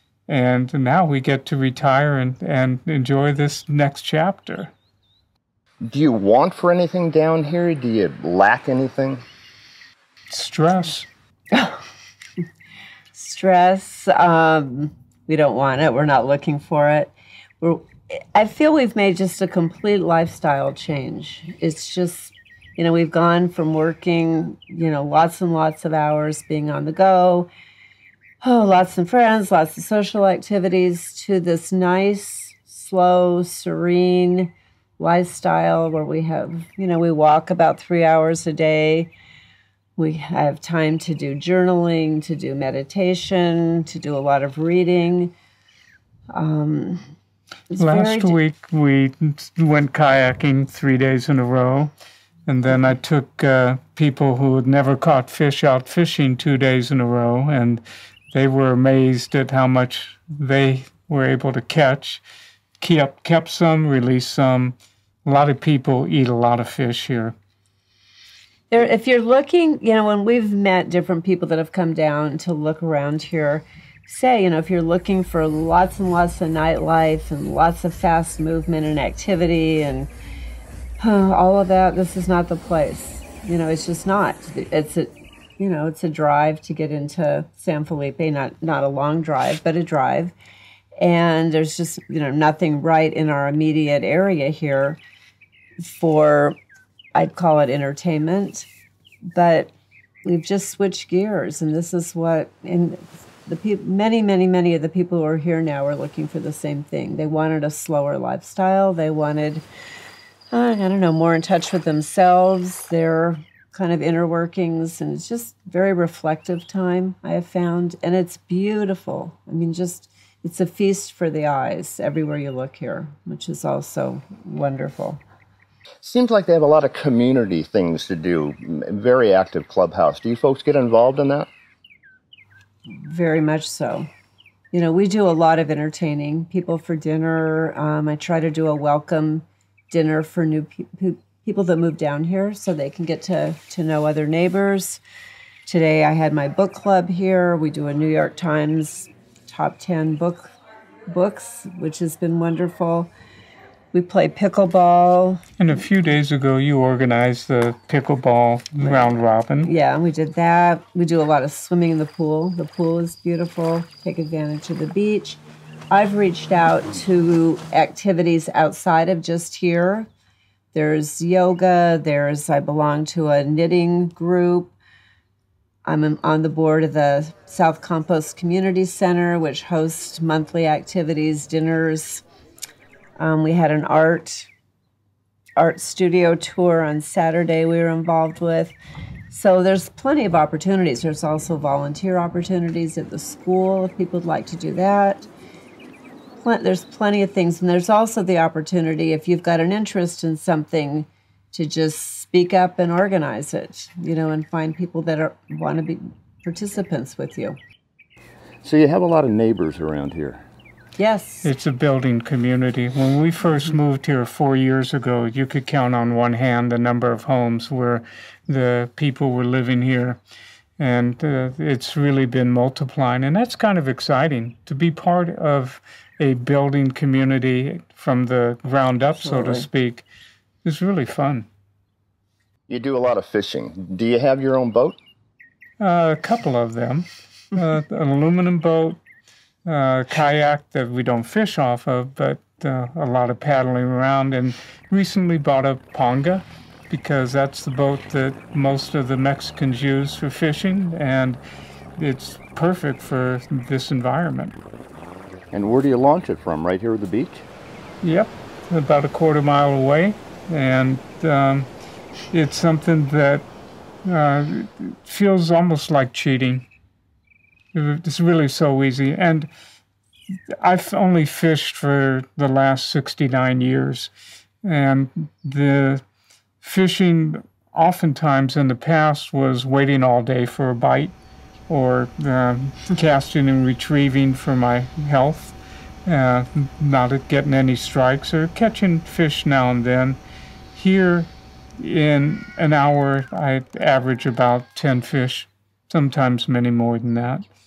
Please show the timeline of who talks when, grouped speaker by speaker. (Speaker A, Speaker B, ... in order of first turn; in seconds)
Speaker A: 0.3-4.7, 10.3-11.1, 47.8-51.9, 52.5-62.2, 62.8-67.3, 155.6-159.7, 211.4-220.2, 220.8-230.1, 230.6-231.5, 235.8-239.0, 239.7-251.4, 252.0-254.5, 258.0-261.7, 262.3-263.4, 264.0-266.7, 267.7-269.5, 270.6-274.1, 274.6-276.0, 276.6-281.1, 281.7-290.2, 290.7-297.4
Speaker B: 5.8-9.2, 126.0-131.5, 208.6-210.4, 232.7-235.0, 255.5-257.4
Speaker C: 11.5-11.8, 13.1-27.5, 28.4-39.1, 40.0-45.3, 46.3-47.1, 47.7-48.4, 68.7-80.1, 81.0-90.3, 91.0-95.0, 95.8-96.6, 97.1-98.7, 99.3-99.7, 100.2-109.6, 110.5-125.2, 132.9-134.1, 134.7-145.0, 145.7-150.5, 151.1-153.1, 153.9-155.4, 158.8-159.1, 159.6-170.1, 170.7-174.7, 175.8-182.2, 183.2-184.5, 185.6-188.8, 189.3-195.3, 196.4-207.6, 211.0-211.5, 229.3-229.6